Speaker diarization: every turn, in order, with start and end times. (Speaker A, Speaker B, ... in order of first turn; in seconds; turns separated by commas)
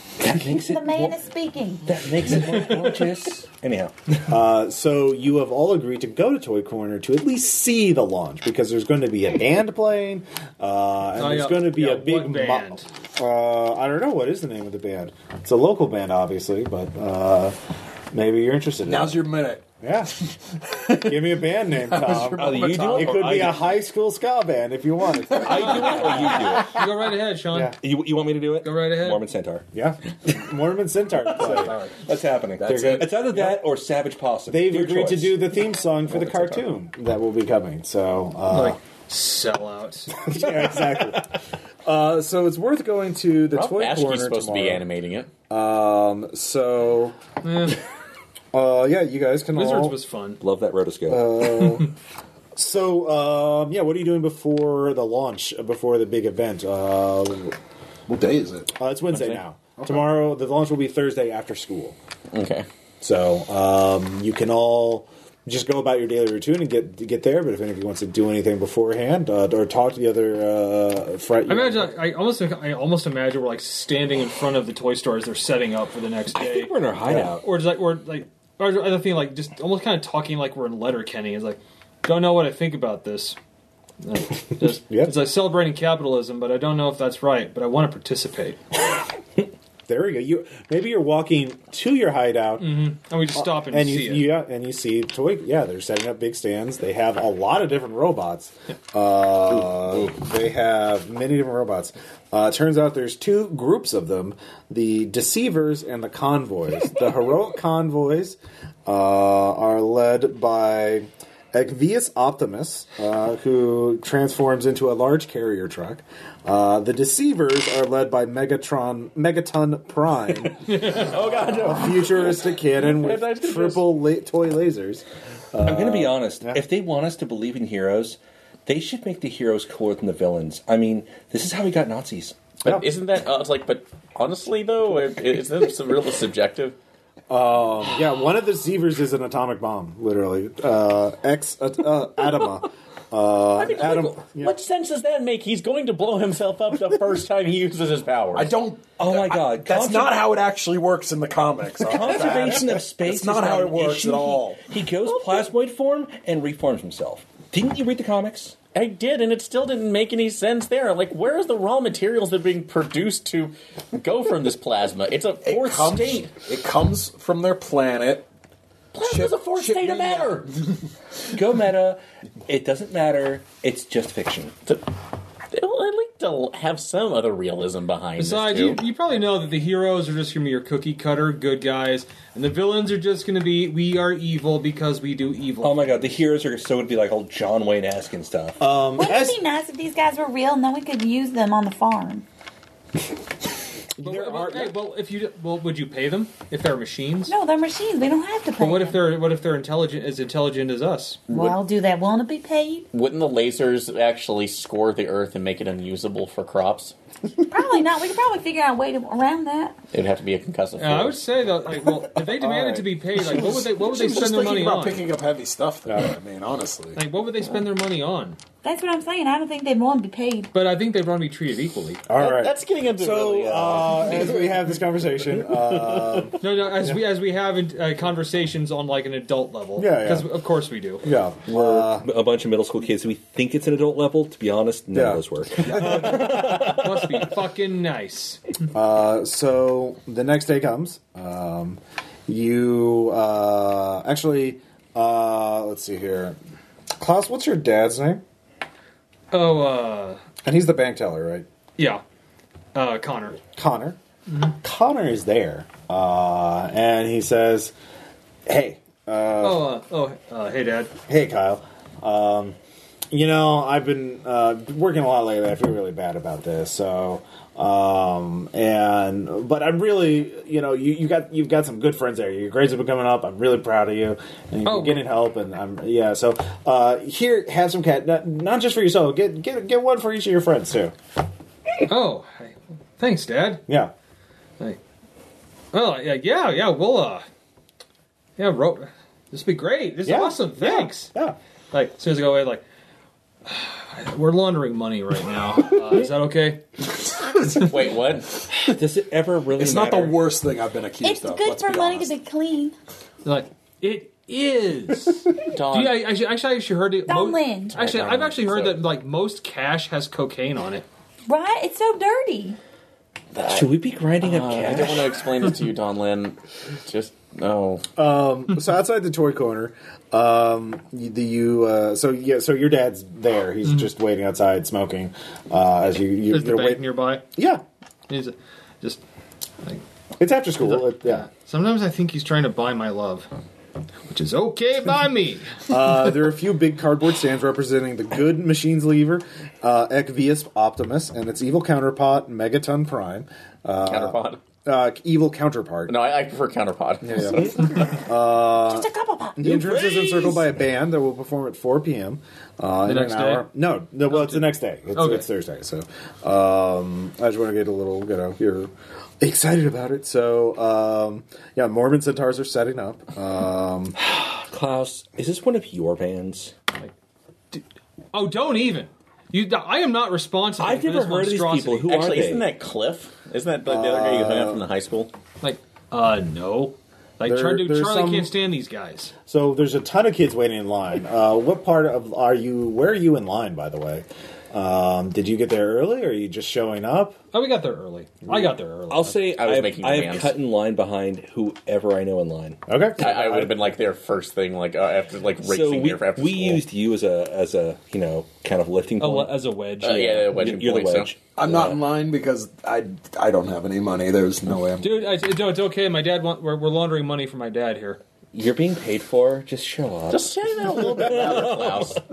Speaker A: 0.2-1.2, Speaker B: 0.4-2.0, Speaker A: 1.9-3.9, Speaker C: 4.3-17.6, Speaker D: 11.2-12.8, Speaker C: 18.1-19.2, Speaker E: 18.9-19.7, Speaker C: 19.8-20.1, Speaker E: 20.6-23.5, Speaker C: 21.0-26.1, Speaker A: 22.4-23.7, Speaker E: 25.2-26.0, Speaker A: 25.4-26.8, Speaker D: 25.5-27.8, Speaker C: 27.5-27.8, Speaker A: 27.8-29.6, Speaker D: 28.6-29.2, Speaker C: 29.7-31.8, Speaker A: 32.0-35.4, Speaker E: 32.6-33.2, Speaker C: 32.6-33.6, Speaker C: 34.5-38.8, Speaker F: 36.1-36.7, Speaker D: 38.5-40.2, Speaker C: 40.2-41.3, Speaker C: 41.9-44.8, Speaker F: 43.5-45.3, Speaker C: 45.5-47.2, Speaker D: 47.4-47.8, Speaker C: 48.5-50.0, Speaker D: 49.5-50.4, Speaker A: 50.4-51.5, Speaker C: 51.1-51.9, Speaker C: 52.6-57.6, Speaker E: 58.1-58.8, Speaker C: 58.8-62.0, Speaker F: 59.1-59.4, Speaker E: 59.8-60.1, Speaker F: 62.3-62.7, Speaker C: 63.0-71.9, Speaker D: 71.5-76.8, Speaker A: 76.3-77.5, Speaker C: 77.1-77.3, Speaker D: 77.3-83.4, Speaker D: 84.0-88.6, Speaker C: 84.7-85.3, Speaker C: 89.9-92.8, Speaker D: 92.6-94.3, Speaker C: 93.3-126.6, Speaker D: 120.6-121.2, Speaker F: 120.9-123.9, Speaker A: 125.6-132.4, Speaker F: 132.6-136.8, Speaker C: 137.3-144.6, Speaker F: 143.6-148.6, Speaker E: 148.3-154.6, Speaker A: 149.0-150.3, Speaker A: 151.8-158.6, Speaker F: 158.7-166.3, Speaker E: 165.4-168.3, Speaker F: 168.9-170.5, Speaker E: 169.0-170.7, Speaker A: 171.3-174.6, Speaker F: 175.5-178.8, Speaker D: 178.2-186.2, Speaker A: 185.6-188.6, Speaker C: 188.6-189.4, Speaker B: 189.0-192.2, Speaker C: 194.0-194.8, Speaker D: 194.0-197.3, Speaker B: 197.3-199.1, Speaker D: 198.6-201.2, Speaker F: 201.3-201.6, Speaker B: 201.3-202.9, Speaker F: 202.9-206.9, Speaker B: 207.5-209.8, Speaker F: 209.9-211.2, Speaker D: 210.8-215.1, Speaker C: 212.0-213.0, Speaker E: 213.2-217.0, Speaker C: 215.9-216.2, Speaker D: 217.0-218.4, Speaker B: 218.6-220.5, Speaker D: 220.5-222.1, Speaker C: 222.1-226.9, Speaker F: 222.2-224.6, Speaker D: 226.4-231.1, Speaker C: 229.8-230.3, Speaker C: 231.0-232.1, Speaker A: 231.5-237.3, Speaker C: 234.9-236.1, Speaker D: 236.0-238.4, Speaker C: 238.7-246.4, Speaker C: 247.0-248.2, Speaker D: 249.3-250.2, Speaker C: 250.4-251.5, Speaker D: 251.8-252.0, Speaker D: 252.7-253.4, Speaker C: 253.6-254.0, Speaker D: 254.3-254.6, Speaker C: 254.6-257.7, Speaker C: 258.5-259.7, Speaker D: 259.4-260.9, Speaker C: 261.1-262.6, Speaker C: 263.1-280.9, Speaker D: 274.6-275.1, Speaker D: 281.9-283.6, Speaker C: 283.7-283.9, Speaker D: 285.7-287.2, Speaker D: 288.4-291.1, Speaker C: 290.0-291.4, Speaker D: 291.7-292.6, Speaker D: 293.5-296.6, Speaker F: 297.5-298.4, Speaker A: 298.7-300.2, Speaker E: 299.6-302.1, Speaker B: 301.0-302.8, Speaker D: 303.2-310.9, Speaker F: 305.4-306.1, Speaker B: 307.1-307.8, Speaker F: 307.7-308.8, Speaker B: 311.3-312.6, Speaker F: 313.3-317.9, Speaker A: 313.5-315.2, Speaker C: 318.0-327.6, Speaker D: 326.3-327.3, Speaker D: 328.1-329.0, Speaker C: 330.2-331.3, Speaker D: 330.6-333.3, Speaker D: 334.1-335.5, Speaker C: 335.7-345.9, Speaker F: 343.8-344.4, Speaker F: 345.9-348.0, Speaker C: 347.0-364.0, Speaker B: 348.7-349.4, Speaker A: 349.4-350.5, Speaker D: 352.9-353.5, Speaker D: 354.1-355.3, Speaker A: 364.0-366.6, Speaker D: 367.5-371.9, Speaker A: 370.6-372.5, Speaker F: 371.9-375.1, Speaker C: 373.7-374.6, Speaker D: 375.4-379.1, Speaker C: 377.2-378.3, Speaker C: 379.3-387.2, Speaker D: 387.3-389.2, Speaker A: 388.9-392.6, Speaker F: 389.3-390.4, Speaker C: 392.7-393.6, Speaker F: 393.0-396.6, Speaker A: 395.4-399.4, Speaker D: 399.0-400.4, Speaker F: 399.8-401.2, Speaker A: 400.3-401.8, Speaker E: 401.4-405.0, Speaker D: 404.8-408.0, Speaker A: 408.3-411.9, Speaker F: 410.1-412.0